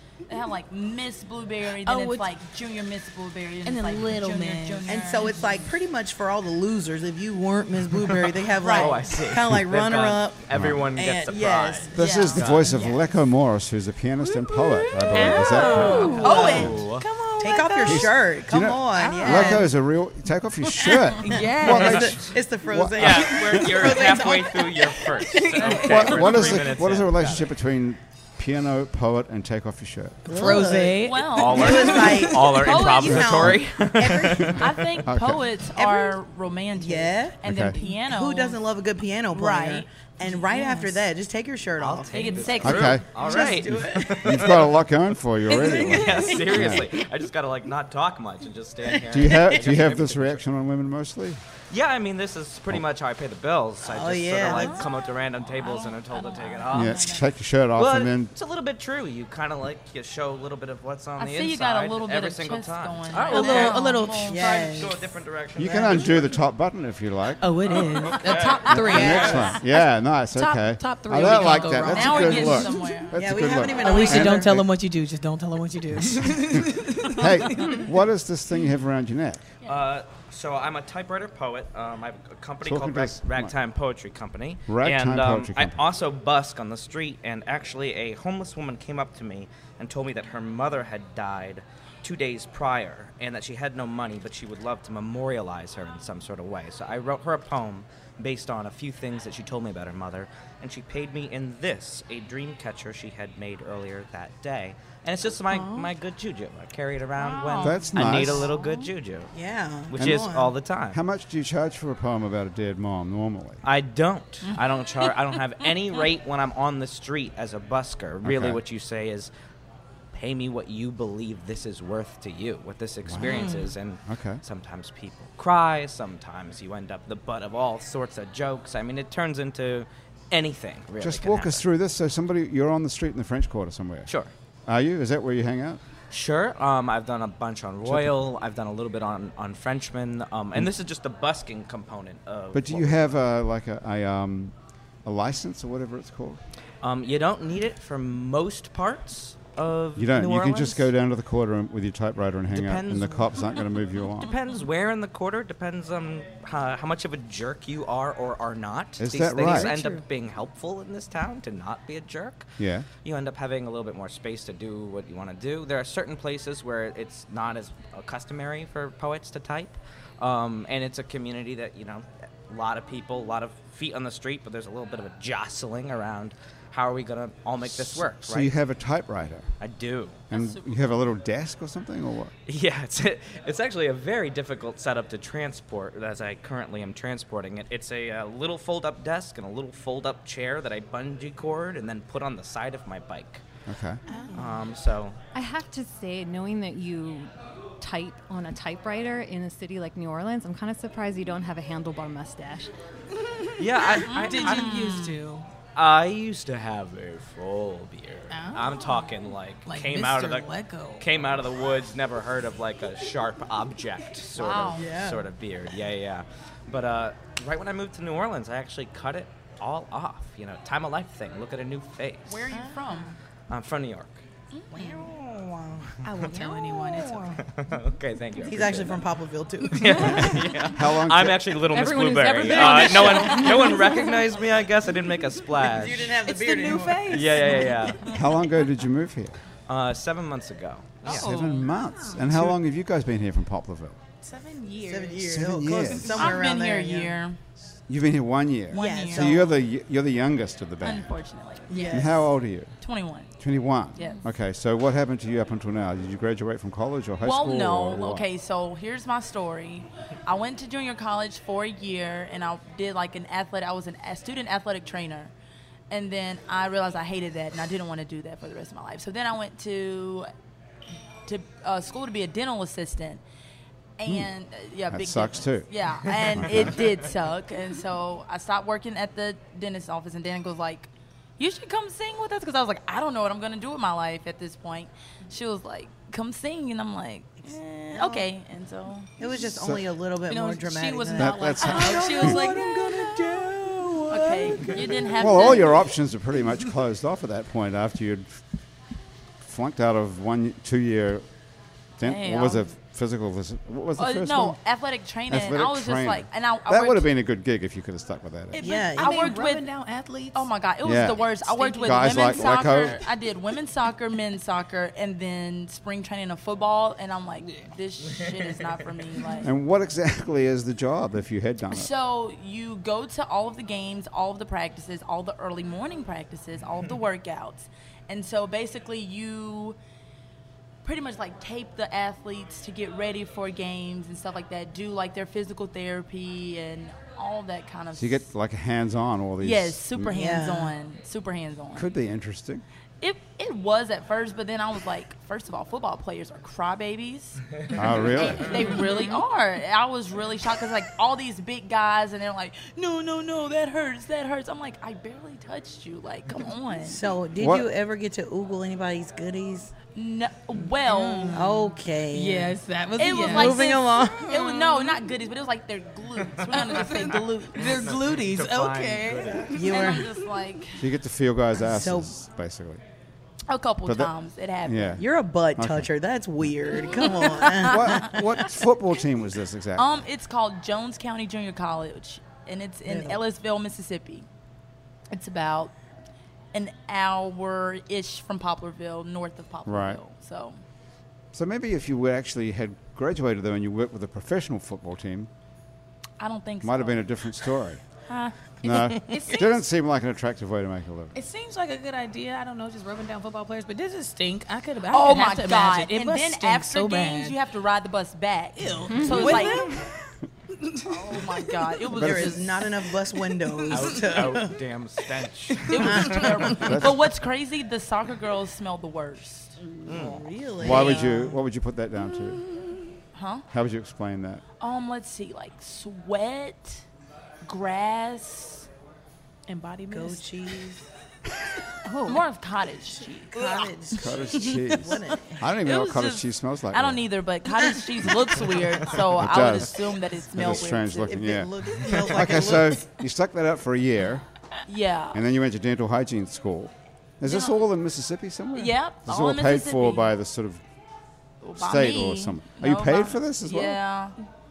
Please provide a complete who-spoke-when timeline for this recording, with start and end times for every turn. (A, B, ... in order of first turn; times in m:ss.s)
0:00.3-0:05.5 A
0:01.8-0:02.4 B
0:03.6-0:05.3 B
0:04.9-0:12.9 C
0:08.6-0:09.1 A
0:08.7-0:12.7 D
0:10.5-0:10.8 E
0:12.0-0:13.0 A
0:12.0-0:16.7 E
0:14.5-0:18.1 B
0:16.0-0:17.0 D
0:16.2-0:16.8 A
0:16.2-0:16.9 C
0:17.4-0:19.7 C
0:17.8-0:23.3 E
0:19.0-0:19.7 B
0:20.9-0:22.2 B
0:21.3-0:25.1 C
0:21.9-0:22.3 D
0:23.0-0:27.5 D
0:23.5-0:24.0 B
0:25.0-0:26.5 B
0:25.8-0:30.4 E
0:30.3-0:32.6 B
0:30.3-0:34.7 C
0:30.9-0:33.3 A
0:31.3-0:34.8 D
0:33.1-0:33.6 E
0:34.5-0:38.6 A
0:35.0-0:35.5 E
0:35.8-0:36.2 C
0:36.7-0:44.5 C
0:37.4-0:37.8 E
0:39.3-0:39.9 A
0:40.5-0:40.9 B
0:41.8-0:44.7 D
0:42.1-0:43.6 A
0:42.6-0:43.1 E
0:43.6-0:46.9 E
0:45.5-0:46.9 B
0:45.9-0:50.4 D
0:49.1-0:49.6 C
0:49.1-0:51.4 E
0:51.7-0:57.2 D
0:53.8-0:54.9 C
0:54.4-0:54.9 A
0:55.5-0:57.3 A
0:56.7-0:58.3 E
0:57.8-1:06.4 D
1:01.2-1:04.8 A
1:03.1-1:04.4 B
1:04.3-1:05.0 C
1:05.6-1:07.5 E
1:05.7-1:06.0 C
1:07.4-1:13.0 B
1:07.7-1:09.6 D
1:08.7-1:14.7 E
1:11.2-1:14.1 A
1:13.1-1:14.5 C
1:13.8-1:17.9 B
1:16.0-1:19.4 E
1:19.6-1:49.3 D
1:22.6-1:23.5 E
1:24.7-1:25.8 E
1:45.5-1:45.9 B
1:47.2-1:48.9 A
1:47.6-1:48.5 E
1:49.3-1:50.5 C
1:49.9-1:51.0 D
1:50.0-1:50.3 E
1:50.9-1:53.6 E
1:53.6-1:59.3 D
1:58.2-1:58.6 E
2:00.1-2:11.6 D
2:03.0-2:04.4 E
2:11.0-2:14.1 E
2:14.7-2:15.8 E
2:16.1-2:23.1 D
2:17.8-2:18.1 E
2:22.5-2:24.5 E
2:25.0-2:26.4 E
2:26.8-2:30.9 D
2:30.0-2:34.4 E
2:32.5-2:58.5 D
2:39.0-2:39.7 E
2:39.4-2:40.0 F
2:42.6-2:42.9 E
2:57.6-2:59.5 E
2:59.6-3:00.2 D
3:00.3-3:00.8 A
3:00.3-3:02.3 E
3:02.5-3:13.4 D
3:13.7-3:14.0 E
3:14.1-3:14.4 B
3:14.2-3:14.4 C
3:14.4-3:15.2 D
3:15.3-3:22.7 F
3:23.2-3:25.4 B
3:23.6-3:25.0 D
3:24.1-3:25.2 A
3:25.8-3:42.5 D
3:28.3-3:31.1 B
3:34.4-3:35.0 A
3:34.5-3:35.3 C
3:42.3-3:43.1 A
3:42.5-3:42.8 B
3:43.5-3:44.2 D
3:44.5-3:45.1 A
3:44.7-3:45.9 C
3:46.0-3:47.5 B
3:46.1-3:46.6 D
3:47.4-3:49.1 D
3:48.4-3:50.4 C
3:49.7-3:56.2 D
3:50.7-3:51.6 E
3:51.7-3:54.0 F
3:55.6-3:57.6 C
3:56.2-3:58.2 B
3:57.1-3:58.1 D
3:58.1-3:59.4 E
3:59.7-4:01.3 D
4:01.0-4:02.3 B
4:01.0-4:04.0 E
4:04.2-4:05.3 B
4:04.8-4:07.2 C
4:05.3-4:06.3 E
4:05.9-4:06.4 B
4:06.1-4:07.4 A
4:07.9-4:11.1 E
4:08.7-4:09.4 A
4:08.7-4:09.6 C
4:10.8-4:12.0 A
4:11.7-4:12.3 C
4:11.7-4:12.1 B
4:11.9-4:12.8 E
4:12.8-4:13.3 A
4:13.4-4:18.3 E
4:14.0-4:14.2 A
4:17.2-4:25.3 A
4:25.9-4:30.3 A
4:31.3-4:33.2 A
4:34.0-4:49.1 A
4:34.9-4:36.8 E
4:47.9-4:48.3 C
4:49.2-4:52.3 C
4:49.4-4:49.9 E
4:50.3-4:55.0 B
4:50.4-4:52.7 A
4:51.2-4:52.5 E
4:54.1-4:55.9 A
4:55.1-4:58.4 E
4:59.4-5:01.2 E
5:02.0-5:04.6 E
5:02.0-5:02.7 A
5:04.0-5:07.1 A
5:05.3-5:08.6 E
5:08.6-5:10.5 B
5:08.6-5:09.4 C
5:09.0-5:09.7 A
5:10.3-5:19.5 A
5:10.8-5:13.0 E
5:11.5-5:13.1 B
5:19.4-5:21.9 E
5:21.7-5:29.8 A
5:30.8-5:38.3 A
5:38.0-5:40.1 E
5:39.4-5:41.9 A
5:40.1-5:40.8 C
5:41.8-5:42.6 E
5:43.0-5:47.4 A
5:47.7-5:48.7 E
5:47.9-5:57.0 A
5:48.8-5:49.2 B
5:56.9-5:59.7 C
5:57.4-5:57.7 E
5:59.9-6:01.5 A
6:00.6-6:03.7 B
6:01.3-6:02.6 C
6:03.0-6:07.8 A
6:03.2-6:04.3 C
6:04.3-6:05.1 B
6:06.5-6:10.1 B
6:06.6-6:09.7 D
6:09.6-6:10.1 C
6:09.6-6:10.9 A
6:10.8-6:12.8 E
6:11.5-6:12.1 C
6:13.5-6:15.0 A
6:13.8-6:14.1 E
6:14.6-6:15.9 E
6:15.0-6:18.2 C
6:17.0-6:18.3 A
6:17.6-6:20.0 E
6:19.8-6:24.3 A
6:22.8-6:23.2 C
6:25.1-6:25.7 A
6:26.5-6:30.6 A
6:29.7-6:30.0 E
6:31.3-6:35.3 E
6:36.2-6:37.0 A
6:36.6-6:37.8 E
6:38.1-6:39.6 A
6:38.6-6:41.2 E
6:38.9-6:39.4 B
6:41.1-6:47.4 B
6:44.9-6:49.8 A
6:48.6-6:50.0 B
6:50.5-6:51.9 B
6:50.9-6:51.3 C
6:51.1-6:52.7 A
6:51.9-6:54.6 C
6:52.0-6:52.4 E
6:53.3-6:54.4 B
6:53.7-6:56.7 D
6:55.7-6:56.7 B
6:55.7-6:59.6 A
6:55.9-6:56.7 C
6:56.6-6:57.0 E
6:59.8-7:01.4 C
6:59.9-7:00.3 D
7:00.6-7:02.4 E
7:00.6-7:01.3 A
7:03.1-7:03.5 A
7:03.5-7:04.4 E
7:04.6-7:06.8 A
7:07.4-7:08.7 A
7:09.5-7:10.4 B
7:09.9-7:10.8 C
7:11.9-7:12.2 F
7:12.0-7:13.7 A
7:13.3-7:15.3 C
7:13.9-7:17.1 E
7:14.5-7:15.0 B
7:15.5-7:21.1 A
7:19.1-7:24.2 E
7:21.1-7:22.9 C
7:24.7-7:25.2 A
7:25.1-7:30.6 E
7:27.2-7:27.6 A
7:28.6-7:30.1 A
7:31.4-7:34.2 A
7:31.6-7:33.8 E